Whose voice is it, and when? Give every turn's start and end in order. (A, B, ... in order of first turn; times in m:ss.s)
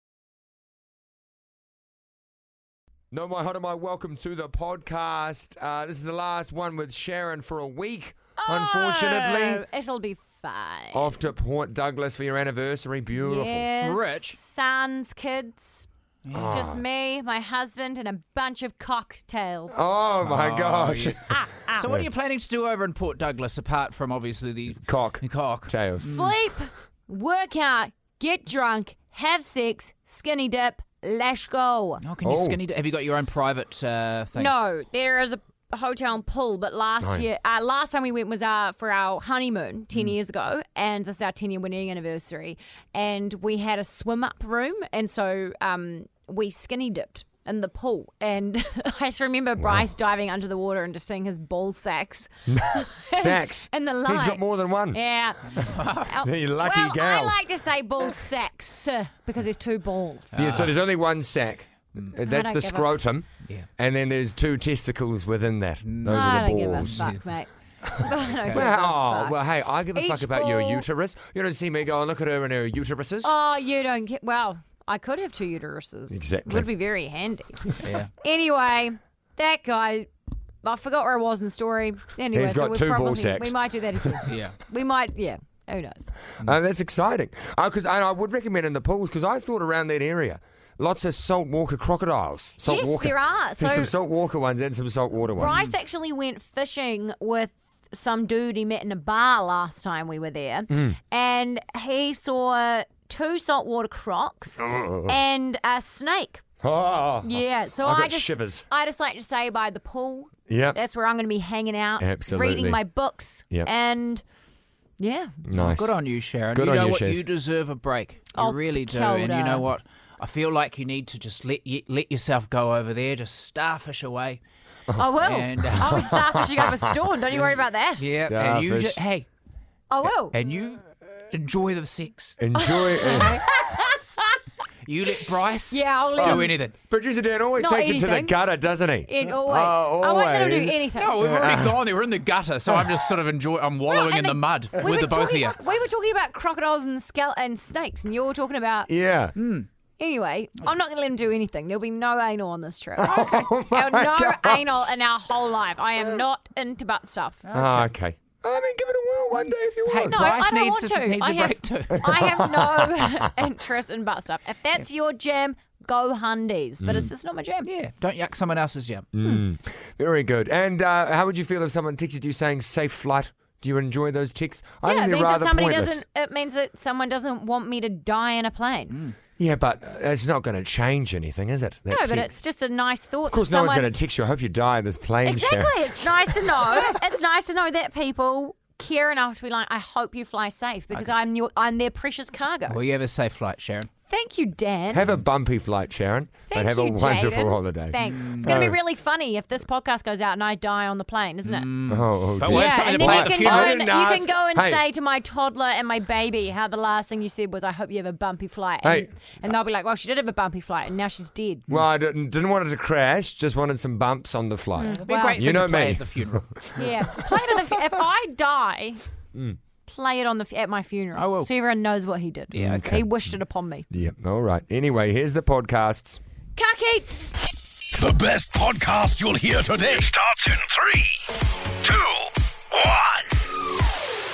0:03.1-0:09.6 A
0:08.4-0:11.1 B
0:10.9-0:13.7 A
0:13.1-0:15.8 B
0:13.8-0:14.4 C
0:16.2-0:16.6 C
0:16.3-0:16.8 A
0:16.4-0:19.8 B
0:19.7-0:21.2 A
0:20.2-0:21.2 C
0:21.3-0:21.8 B
0:21.7-0:26.3 C
0:24.8-0:26.1 A
0:26.0-0:32.0 B
0:32.0-0:34.5 C
0:32.2-0:32.6 A
0:34.4-1:00.3 B
0:37.0-0:37.2 A
0:52.5-0:55.0 A
0:55.7-0:56.1 C
0:56.2-0:57.4 A
1:00.3-1:00.7 C
1:00.3-1:07.1 A
1:02.2-1:03.0 B
1:05.8-1:07.2 C
1:06.0-1:09.4 B
1:08.3-1:08.7 C
1:08.5-1:13.3 A
1:09.9-1:10.8 B
1:13.2-1:17.6 B
1:16.1-1:16.7 A
1:17.8-1:18.1 C
1:18.2-1:20.1 B
1:20.6-1:26.1 B
1:22.3-1:24.2 A
1:24.2-1:24.6 C
1:26.4-1:35.7 A
1:32.6-1:33.9 B
1:35.3-1:46.4 B
1:40.7-1:41.0 A
1:44.6-1:45.2 A
1:46.6-1:48.6 A
1:47.2-1:54.2 B
1:50.5-1:50.8 A
1:52.0-1:52.8 A
1:55.0-1:55.4 B
1:55.4-1:56.0 A
1:55.5-2:04.4 C
1:56.5-1:57.2 A
1:58.3-1:59.6 B
2:04.9-2:06.9 A
2:05.0-2:08.2 B
2:05.2-2:06.1 C
2:08.0-2:09.3 C
2:08.3-2:09.0 A
2:09.9-2:10.4 B
2:10.3-2:12.4 C
2:12.4-2:13.4 A
2:12.6-2:14.4 B
2:13.1-2:13.4 C
2:14.8-2:16.7 C
2:15.7-2:16.5 B
2:16.2-2:21.8 A
2:17.6-2:18.3 B
2:19.0-2:21.2 B
2:21.0-2:25.6 C
2:23.9-2:28.9 B
2:28.9-2:29.3 A
2:29.4-2:29.7 C
2:30.0-2:37.4 B
2:33.0-2:34.9 A
2:37.4-2:37.9 C
2:37.5-2:40.4 A
2:39.8-2:42.1 C
2:40.1-2:47.7 B
2:42.0-2:43.3 A
2:46.8-2:47.1 A
2:47.6-2:49.1 C
2:49.1-2:56.0 A
2:54.8-2:59.0 B
2:58.9-2:59.2 C
2:59.4-3:02.3 A
3:01.9-3:03.9 B
3:03.3-3:06.4 A
3:05.2-3:12.8 B
3:12.7-3:13.9 C
3:14.1-3:15.1 B
3:14.9-3:18.8 A
3:16.5-3:21.7 B
3:18.0-3:18.6 C
3:21.4-3:23.8 C
3:21.9-3:24.8 A
3:22.5-3:31.6 B
3:28.8-3:29.1 A
3:31.7-3:37.7 A
3:34.8-3:35.4 B
3:34.9-3:36.8 C
3:36.8-3:39.0 B
3:39.9-3:43.8 B
3:41.1-3:41.5 C
3:42.5-3:43.3 A
3:43.9-3:46.2 A
3:46.6-3:47.3 B
3:47.9-3:53.5 D